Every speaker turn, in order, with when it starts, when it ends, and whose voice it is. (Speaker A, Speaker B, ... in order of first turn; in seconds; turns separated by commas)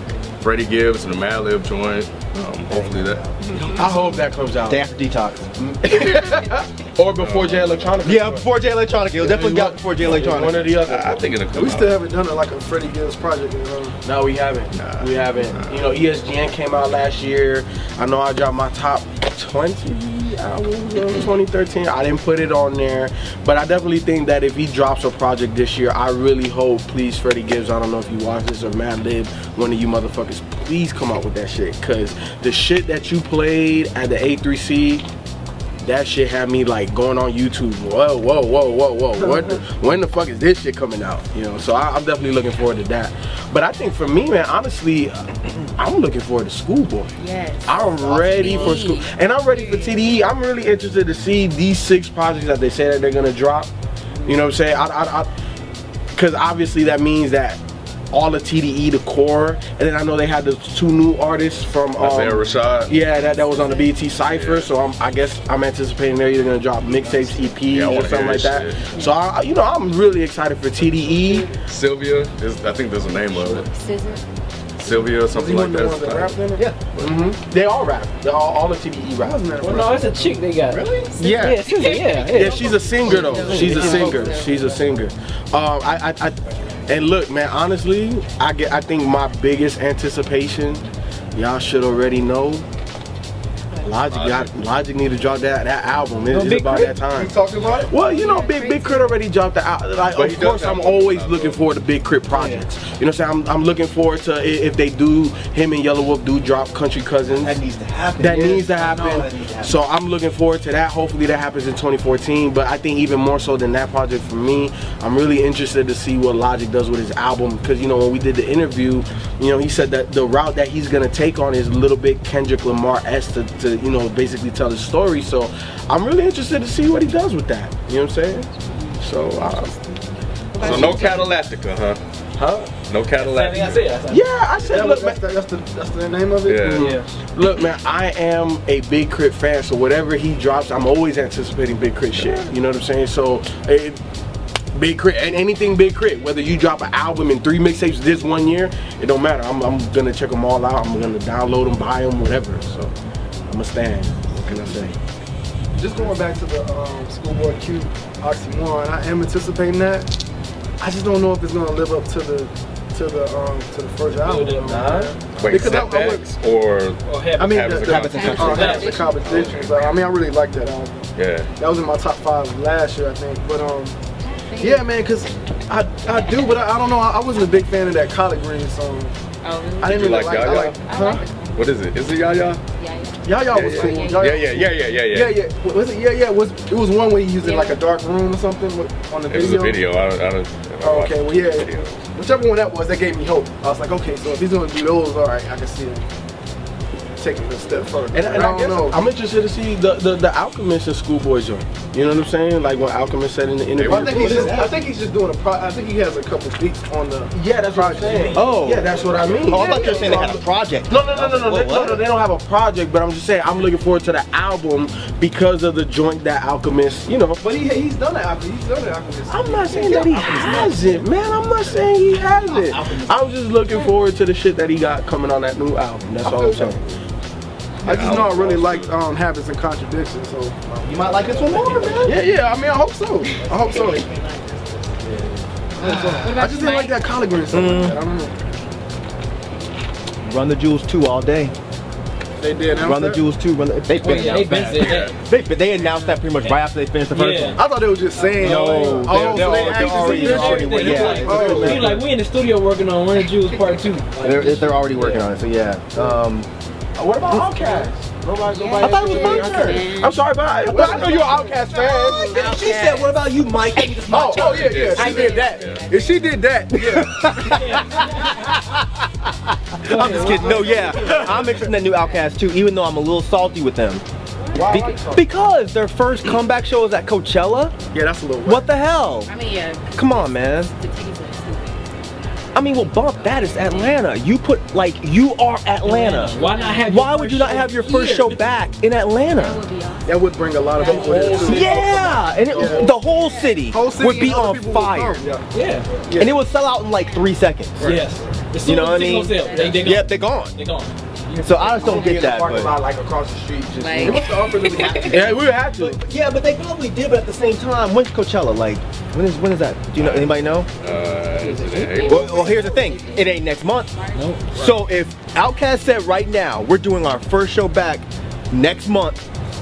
Speaker A: 0.4-3.2, Speaker B: 2.7-3.6, Speaker C: 3.6-4.8, Speaker B: 4.7-6.0, Speaker C: 5.6-8.5, Speaker A: 7.2-8.0, Speaker B: 8.0-10.7, Speaker C: 9.2-11.4, Speaker A: 10.7-12.0, Speaker D: 11.5-14.0, Speaker C: 14.0-35.0, Speaker A: 14.7-15.9, Speaker C: 35.8-53.7, Speaker E: 47.2-50.1, Speaker D: 48.0-48.7, Speaker C: 54.2-55.3, Speaker C: 56.1-57.6, Speaker C: 58.1-71.5, Speaker A: 62.0-63.0, Speaker E: 62.9-64.0, Speaker A: 64.2-64.7, Speaker A: 67.7-69.0, Speaker A: 71.7-73.7, Speaker E: 73.1-74.2, Speaker A: 74.8-77.3, Speaker D: 75.2-77.4, Speaker C: 77.0-80.0, Speaker D: 79.2-81.1, Speaker F: 79.6-84.4, Speaker B: 81.2-81.7, Speaker E: 81.8-84.8, Speaker C: 82.2-92.7, Speaker D: 83.0-84.0, Speaker C: 93.8-97.3, Speaker A: 94.0-94.6, Speaker F: 96.3-97.0, Speaker D: 97.1-97.9, Speaker C: 97.9-107.6, Speaker E: 97.9-99.2, Speaker A: 100.1-101.6, Speaker F: 102.3-102.7, Speaker B: 107.3-109.7, Speaker C: 108.2-129.8, Speaker E: 130.6-131.2, Speaker D: 130.6-131.2, Speaker A: 130.6-132.0, Speaker C: 130.6-131.1, Speaker A: 132.8-133.9, Speaker F: 133.2-134.3, Speaker C: 134.1-135.2, Speaker D: 134.6-136.9, Speaker A: 136.5-136.9, Speaker C: 136.6-144.0, Speaker F: 136.7-137.1, Speaker A: 142.2-142.4, Speaker C: 144.7-152.9, Speaker C: 153.5-155.0, Speaker D: 155.8-160.1, Speaker D: 160.8-166.3, Speaker F: 164.1-165.1, Speaker B: 164.6-165.7, Speaker A: 165.3-169.9, Speaker F: 167.0-167.7, Speaker D: 167.4-174.0, Speaker B: 167.8-168.9, Speaker E: 168.1-169.4, Speaker F: 168.2-169.0, Speaker A: 171.2-171.5, Speaker E: 174.2-175.2, Speaker D: 174.6-179.2, Speaker E: 176.0-176.8, Speaker E: 177.5-178.0, Speaker E: 179.4-181.7, Speaker A: 179.8-180.8, Speaker D: 179.8-181.2, Speaker A: 181.6-182.6, Speaker D: 182.0-182.4, Speaker E: 182.7-184.5, Speaker D: 183.2-189.9, Speaker A: 183.5-185.4, Speaker E: 187.4-187.9, Speaker A: 189.3-192.0, Speaker D: 190.8-196.1, Speaker D: 197.2-199.0, Speaker C: 198.1-204.7, Speaker A: 203.8-204.5, Speaker D: 203.8-210.4, Speaker B: 204.2-204.7, Speaker C: 207.3-217.4, Speaker F: 208.0-208.7, Speaker B: 208.3-212.0, Speaker D: 217.4-220.7, Speaker B: 219.3-221.0, Speaker C: 219.3-226.8, Speaker E: 220.2-220.7, Speaker B: 222.4-223.3, Speaker E: 223.7-224.0, Speaker B: 226.2-226.7, Speaker D: 226.3-226.8, Speaker D: 227.8-234.1, Speaker A: 227.8-229.0, Speaker B: 230.8-232.2, Speaker F: 231.5-232.2, Speaker E: 233.4-234.9, Speaker B: 235.8-236.4, Speaker D: 235.8-238.4, Speaker E: 236.2-238.6, Speaker B: 237.5-238.0, Speaker B: 240.2-241.5, Speaker D: 242.4-243.2, Speaker B: 242.8-247.6, Speaker F: 244.0-245.1, Speaker A: 244.1-245.2, Speaker F: 246.2-247.6, Speaker D: 247.5-252.0, Speaker F: 248.2-255.3, Speaker B: 248.4-252.0, Speaker C: 250.9-251.8, Speaker B: 254.2-256.5, Speaker C: 257.0-262.1, Speaker B: 257.3-257.5, Speaker E: 257.6-257.9, Speaker D: 258.5-259.8, Speaker E: 258.5-266.6, Speaker B: 258.7-259.9, Speaker D: 260.6-262.5, Speaker B: 262.2-264.9, Speaker D: 264.1-267.8, Speaker A: 264.5-265.9, Speaker B: 266.7-274.0, Speaker F: 267.4-268.6, Speaker F: 269.8-270.9, Speaker D: 269.9-271.6, Speaker E: 270.8-272.3, Speaker E: 274.4-275.1, Speaker D: 274.5-275.2, Speaker B: 274.6-277.8, Speaker D: 277.9-278.7, Speaker B: 278.4-279.3, Speaker E: 279.3-284.0, Speaker B: 279.9-280.7, Speaker B: 282.5-289.6, Speaker F: 285.8-288.4, Speaker E: 286.0-286.9, Speaker E: 289.3-293.6, Speaker D: 290.1-293.0, Speaker F: 290.8-292.6, Speaker C: 290.9-292.0, Speaker B: 291.4-295.2, Speaker D: 293.6-295.5, Speaker F: 295.5-295.9, Speaker D: 296.0-296.4, Speaker B: 296.1-297.8, Speaker E: 296.8-297.4, Speaker D: 297.8-298.2, Speaker F: 297.8-301.9, Speaker B: 298.6-300.6, Speaker E: 299.3-299.9, Speaker B: 301.4-302.8, Speaker C: 301.5-304.3, Speaker E: 303.8-305.4, Speaker D: 303.9-305.2, Speaker B: 304.6-310.7, Speaker C: 305.1-306.0, Speaker A: 310.0-312.5, Speaker F: 311.3-312.3, Speaker E: 311.6-314.7, Speaker B: 312.0-313.9, Speaker F: 314.1-314.5, Speaker B: 314.5-319.2